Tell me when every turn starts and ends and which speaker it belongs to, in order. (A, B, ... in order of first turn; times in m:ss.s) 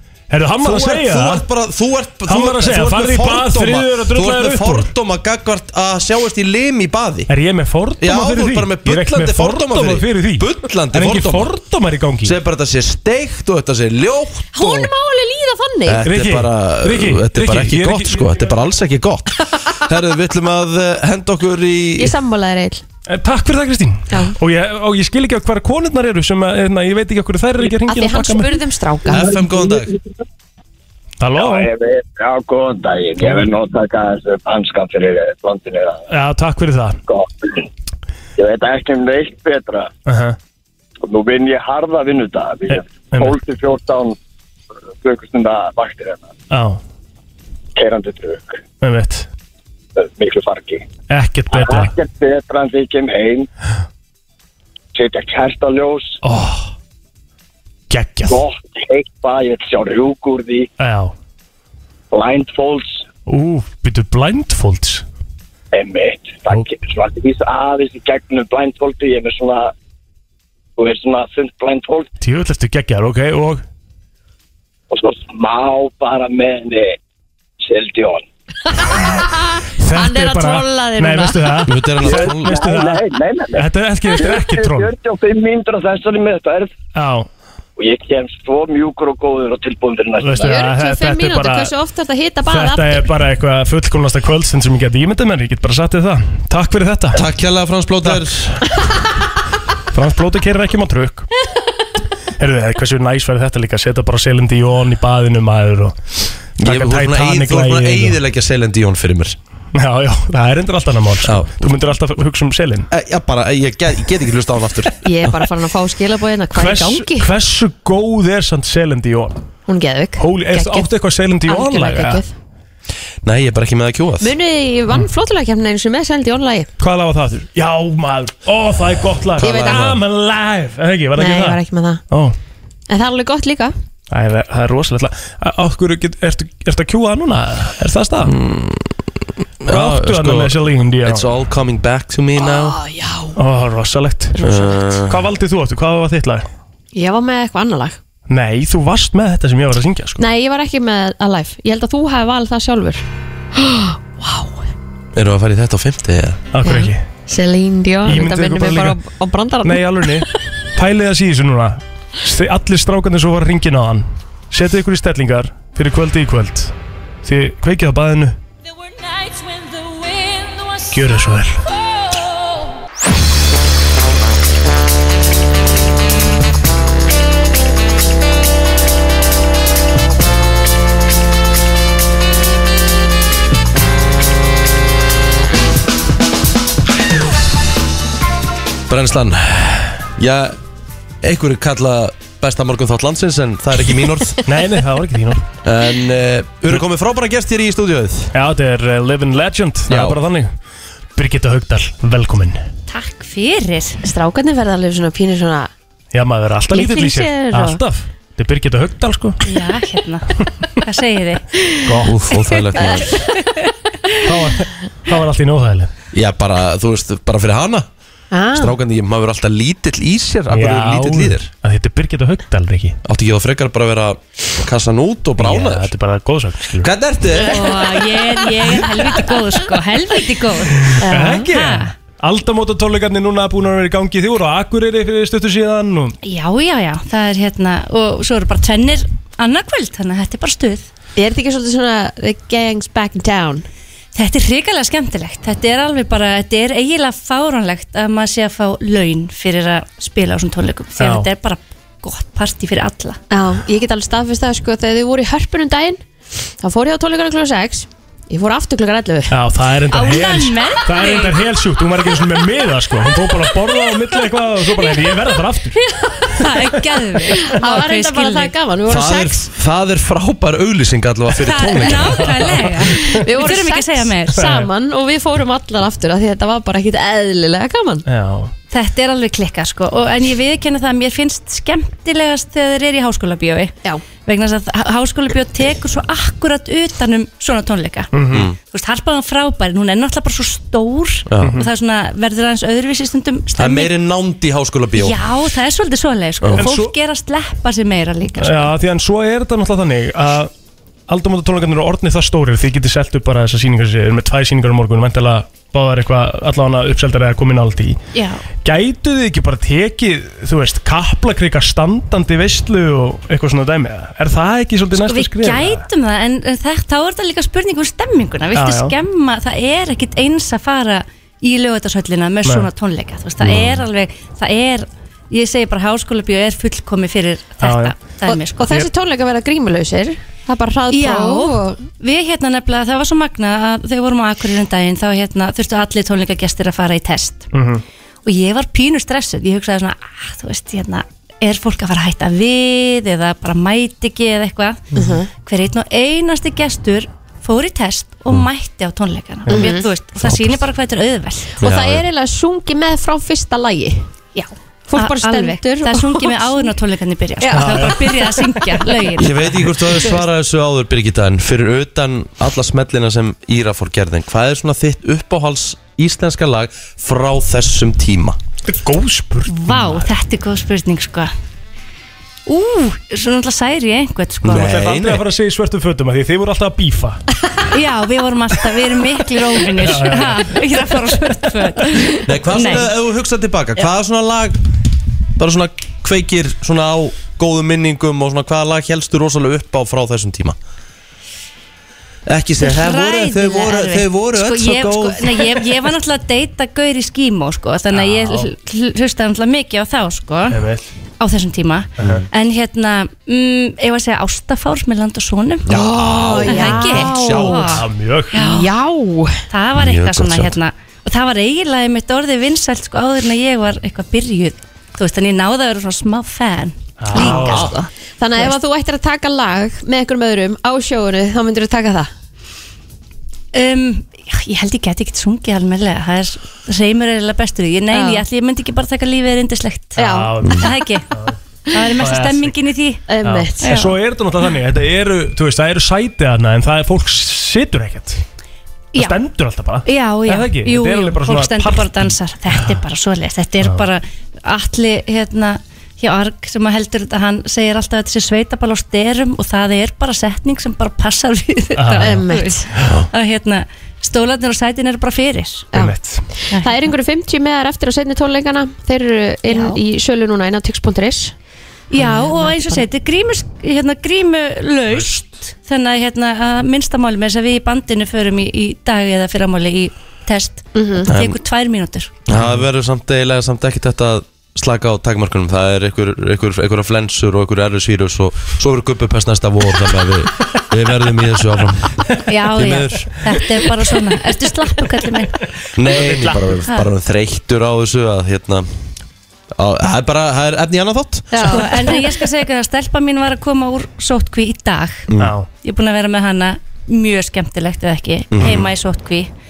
0:00.3-0:01.4 A
0:00.6-0:07.3 B
0:02.3-0:04.9 A
0:07.3-0:12.4 A
0:08.0-0:11.5 B
0:12.2-0:14.9 B
0:14.5-0:16.0 C
0:15.9-0:22.1 B
0:16.0-0:18.5 A
0:22.0-0:22.8 C
0:23.1-0:28.6 A
0:27.8-0:29.3 C
0:29.1-0:29.9 B
0:29.1-0:29.8 D
0:31.2-0:31.7 A
0:31.4-0:36.0 D
0:36.1-0:37.0 A
0:37.1-0:37.6 D
0:38.4-0:39.9 D
0:40.1-0:40.4 A
0:41.0-0:44.2 D
0:45.0-0:46.3 D
0:46.5-0:46.8 A
0:47.8-0:48.6 D
0:48.8-0:49.3 A
0:50.0-0:50.9 D
0:51.1-0:51.9 A
0:51.5-0:53.5 D
0:55.0-0:56.2 D
0:56.2-0:56.7 A
0:57.9-0:58.4 A
0:58.2-1:00.7 D
1:00.8-1:01.1 A
1:02.1-1:03.0 D
1:03.3-1:05.0 A
1:05.7-1:09.7 D
1:10.8-1:12.1 D
1:12.2-1:13.6 A
1:14.9-1:17.0 D
1:17.6-1:18.2 D
1:19.2-1:21.6 C
1:19.8-1:24.9 A
1:21.7-1:22.6 B
1:22.0-1:26.7 D
1:27.0-1:27.3 A
1:27.8-1:30.5 D
1:30.2-1:31.7 A
1:30.4-1:33.1 C
1:32.5-1:37.3 A
1:37.1-1:38.6 B
1:39.9-1:41.3 A
1:42.4-1:46.0 A
1:46.6-1:48.2 A
1:46.6-1:49.4 B
1:49.7-1:52.9 A
1:51.2-1:51.5 B
1:52.9-1:55.4 B
1:55.0-1:57.3 C
1:56.6-1:59.4 A
1:59.7-2:00.9 C
2:00.2-2:02.2 A
2:01.4-2:02.3 C
2:03.2-2:04.3 B
2:04.2-2:06.7 C
2:06.8-2:12.4 A
2:09.4-2:10.0 B
2:09.4-2:09.9 C
2:11.2-2:12.0 C
2:12.9-2:13.7 C
2:14.1-2:18.3 A
2:18.2-2:19.0 B
2:19.6-2:22.8 B
2:19.7-2:21.3 A
2:22.4-2:23.4 C
2:23.4-2:24.4 A
2:24.4-2:24.7 C
2:24.4-2:25.3 B
2:25.1-2:26.5 A
2:26.9-2:28.0 C
2:28.3-2:30.2 A
2:30.2-2:33.0 C
2:33.6-2:34.7 C
2:35.2-2:36.4 B
2:36.5-2:37.0 A
2:36.6-2:40.2 C
2:38.0-2:39.0 A
2:39.6-2:46.7 A
2:47.2-2:48.4 A
2:50.9-2:51.6 A
3:08.9-3:10.6 B
3:11.2-3:14.4 B
3:14.4-3:15.4 A
3:15.6-3:18.3 B
3:18.3-3:20.5 A
3:19.9-3:20.2 B
3:21.2-3:22.6 A
3:22.9-3:24.0 E
3:24.0-3:25.7 C
3:26.1-3:29.4 A
3:26.7-3:27.8 C
3:29.4-3:30.3 E
3:30.8-3:31.5 E
3:31.8-3:32.2 A
3:32.0-3:33.2 B
3:32.8-3:34.2 E
3:34.2-3:35.9 A
3:36.1-3:37.9 B
3:38.3-3:38.8 C
3:38.5-3:41.5 B
3:40.5-3:43.0 A
3:43.0-3:45.9 B
3:45.4-3:46.9 A
3:46.8-3:47.7 B
3:47.4-3:51.9 E
3:47.4-3:48.7 C
3:51.0-3:51.4 C
3:51.1-3:56.2 A
3:56.2-4:00.9 E
4:01.2-4:03.6 C
4:04.2-4:13.2 E
4:11.0-4:11.3 A
4:13.3-4:16.0 C
4:16.6-4:19.3 C
4:19.3-4:25.8 A
4:19.9-4:21.4 E
4:26.4-4:28.5 E
4:27.3-4:29.5 C
4:28.9-4:32.5 B
4:31.4-4:34.4 E
4:32.5-4:33.2 A
4:32.8-4:38.0 C
4:34.4-4:34.7 A
4:38.1-4:38.5 A
4:38.7-4:53.9 E
4:48.1-4:48.5 A
4:51.3-4:51.6 B
4:51.4-4:51.7 A
4:53.6-4:55.2 B
4:55.0-4:58.7 E
4:56.6-4:56.9 A
4:58.4-5:00.5 A
5:01.1-5:08.0 A
5:08.1-5:08.5 E
5:08.6-5:15.8 A
5:14.9-5:28.7 E
5:18.6-5:18.9 A
5:23.4-5:23.8 B
5:27.6-5:28.0 A
5:28.3-5:31.8 C
5:30.9-5:37.5 E
5:37.5-5:37.8 A
5:38.2-5:51.6 E
5:44.9-5:45.3 C
5:49.5-5:49.9 C
5:51.6-5:54.1 C
5:51.6-5:52.0 B
5:54.4-5:59.4 E
5:54.9-5:56.7 C
5:57.4-5:57.9 C
5:57.5-5:58.1 A
5:58.6-5:58.9 C
5:59.2-6:08.4 B
6:08.7-6:10.1 A
6:09.5-6:11.3 E
6:12.5-6:14.6 E
6:14.4-6:15.2 B
6:14.5-6:17.2 A
6:17.7-6:22.9 E
6:19.8-6:20.5 A
6:22.2-6:24.6 B
6:25.4-6:30.6 B
6:32.3-6:35.6 B
6:32.6-6:40.6 E
6:37.9-6:38.5 A
6:40.5-6:40.8 A
6:41.2-6:48.7 E
6:45.7-6:47.8 B
6:45.7-6:47.7 C
6:47.7-6:48.4 A
6:48.3-6:49.4 C
6:49.5-6:57.9 E
6:49.8-6:50.6 B
6:57.0-6:57.7 A
6:57.1-7:02.1 C
7:03.5-7:11.1 E
7:07.9-7:08.2 C
7:10.0-7:10.7 C
7:10.1-7:10.6 A
7:11.7-7:13.1 E
7:12.0-7:12.5 A
7:13.1-7:13.7 C
7:13.2-7:18.2 A
7:13.6-7:14.0 E
7:19.0-7:22.2 A
7:19.9-7:35.7 E
7:31.8-7:32.2 A
7:32.0-7:32.7 C
7:35.7-7:36.2 A
7:36.5-7:41.3 C
7:39.5-7:39.8 E
7:41.9-7:52.1 E
7:42.0-7:42.9 C
7:50.7-7:51.1 C
7:51.1-7:51.4 B
7:52.3-8:03.2 B
8:02.3-8:05.4 E
8:05.8-8:08.7 B
8:05.8-8:06.5 A
8:09.6-8:11.6 B
8:11.3-8:12.1 C
8:11.5-8:19.3 E
8:15.1-8:15.3 B
8:15.2-8:15.5 A
8:18.3-8:18.7 B